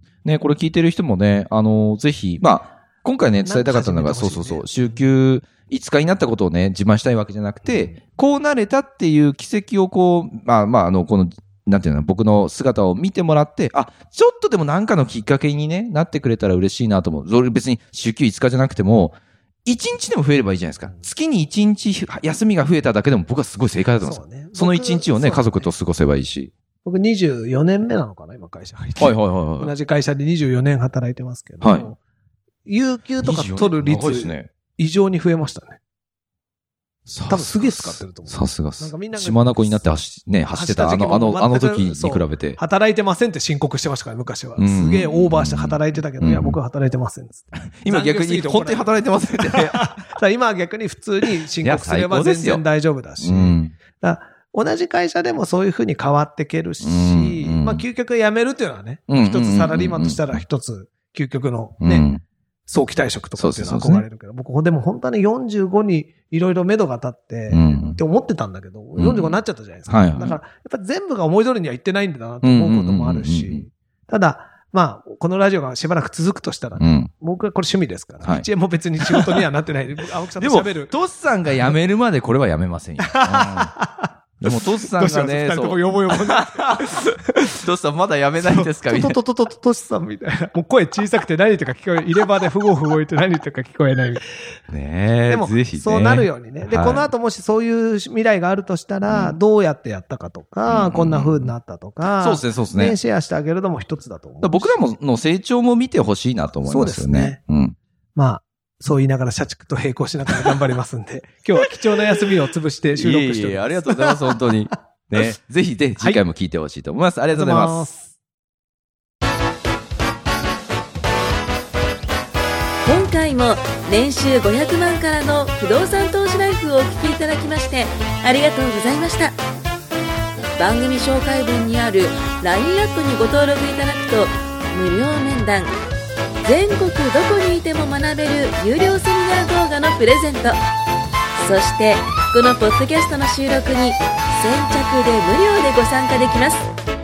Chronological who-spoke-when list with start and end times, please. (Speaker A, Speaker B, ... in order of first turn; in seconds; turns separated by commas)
Speaker A: 0.2-26.5, Speaker B: 3.4-5.0, Speaker B: 24.0-25.7, Speaker B: 26.8-32.0, Speaker A: 29.0-29.7, Speaker A: 31.6-31.9, Speaker B: 32.6-35.8, Speaker A: 33.2-34.5, Speaker A: 37.1-42.6, Speaker B: 37.3-39.9, Speaker B: 40.5-62.1, Speaker A: 44.6-46.6, Speaker A: 47.8-49.9, Speaker A: 51.6-52.6, Speaker A: 53.2-53.7, Speaker A: 56.8-57.8, Speaker A: 59.1-60.4, Speaker A: 61.8-62.2, Speaker B: 62.7-80.9, Speaker A: 63.4-64.0, Speaker A: 67.5-68.0, Speaker A: 69.0-70.4, Speaker A: 72.4-73.6, Speaker A: 76.8-77.1, Speaker A: 79.0-79.4, Speaker A: 80.4-83.7, Speaker B: 83.0-87.6, Speaker A: 84.4-89.2, Speaker B: 88.4-94.2, Speaker A: 94.7-97.1, Speaker B: 95.3-104.8, Speaker A: 99.0-99.4, Speaker A: 100.7-101.5, Speaker A: 102.2-103.0, Speaker A: 104.4-107.8, Speaker B: 106.6-107.4, Speaker B: 108.2-114.2, Speaker A: 112.9-117.8, Speaker B: 117.3-118.1, Speaker C: 122.8-129.4, Speaker C: 130.4-135.7, Speaker C: 136.4-140.6, Speaker C: 141.4-146.7